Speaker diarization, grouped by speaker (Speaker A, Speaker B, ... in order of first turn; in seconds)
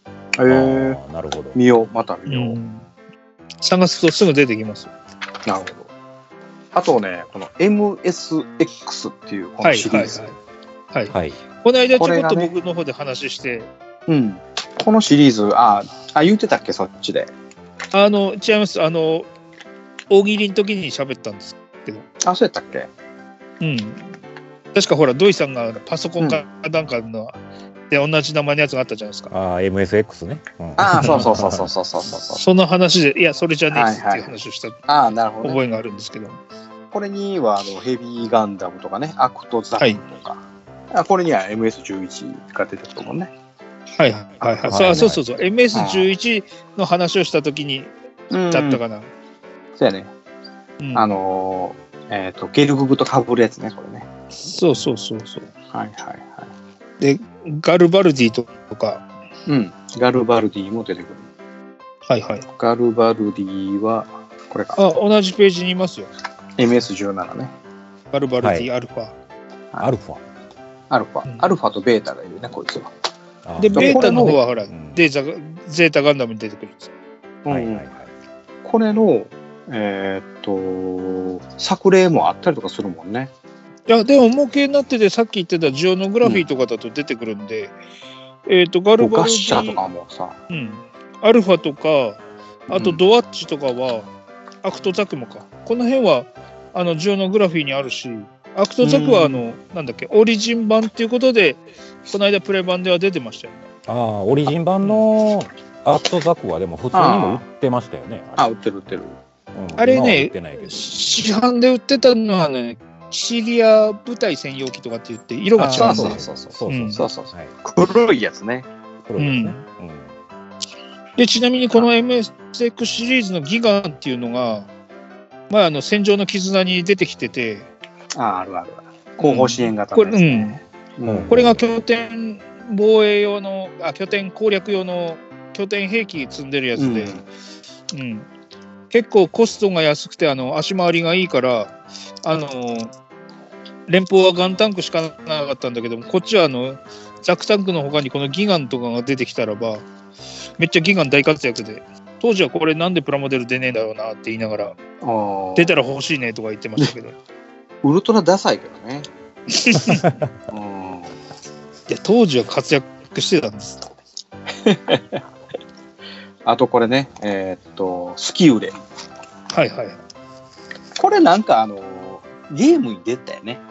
Speaker A: 0.4-1.0, 1.6-2.6, 5.5-5.9, 6.7-10.3, 11.9-12.5, 14.1-17.3, 22.2-22.9, 30.8-32.4, 33.7-34.4, 34.9-35.6, 36.9-43.3, 44.7-45.1, 45.7-46.1, 48.3-48.8, 49.8-50.1, 50.9-54.1, 55.7-56.5, 59.5-61.3, 62.6-64.8, 66.6-67.5, 70.9-72.9, 73.7-74.4, 77.5-77.9, 78.6-83.3, 89.0-90.3, 92.7-93.0, 98.8-99.4, 106.9-107.4, 108.4-109.2, 115.6-118.7, 128.2-131.6, 136.8-137.2, 155.0-155.7, 157.8-159.1, 160.5-161.2, 164.6-165.2, 166.4-168.7, 171.0-173.6
Speaker B: 0.5-1.6, 11.1-11.4, 29.3-31.7, 44.7-45.2, 68.4-68.7, 69.8-70.2, 73.5-75.0, 77.5-78.1, 103.9-108.5, 109.5-111.3, 115.6-117.5, 119.1-120.1, 131.1-131.6
Speaker C: 2.3-2.9, 3.6-4.9, 9.6-10.3, 10.9-13.7, 17.9-19.3, 20.1-22.1, 23.6-24.1, 24.8-27.4, 27.9-29.3, 31.0-31.3, 32.4-34.8, 35.4-36.4, 44.0-47.9, 48.5-49.1, 54.4-55.5, 57.0-59.0, 62.1-62.5, 64.8-66.1, 68.1-69.1, 73.6-76.9, 83.9-87.7, 88.5-89.8, 90.5-94.1, 94.6-103.7, 109.8-117.0, 119.2-119.6, 121.2-124.7, 125.5-127.7, 129.2-130.6, 131.3-137.2, 137.9-138.3, 138.9-141.7, 142.2-142.9, 143.9-149.8, 150.6-154.8, 155.6-157.2, 159.5-160.1, 161.9-163.9, 169.5-170.0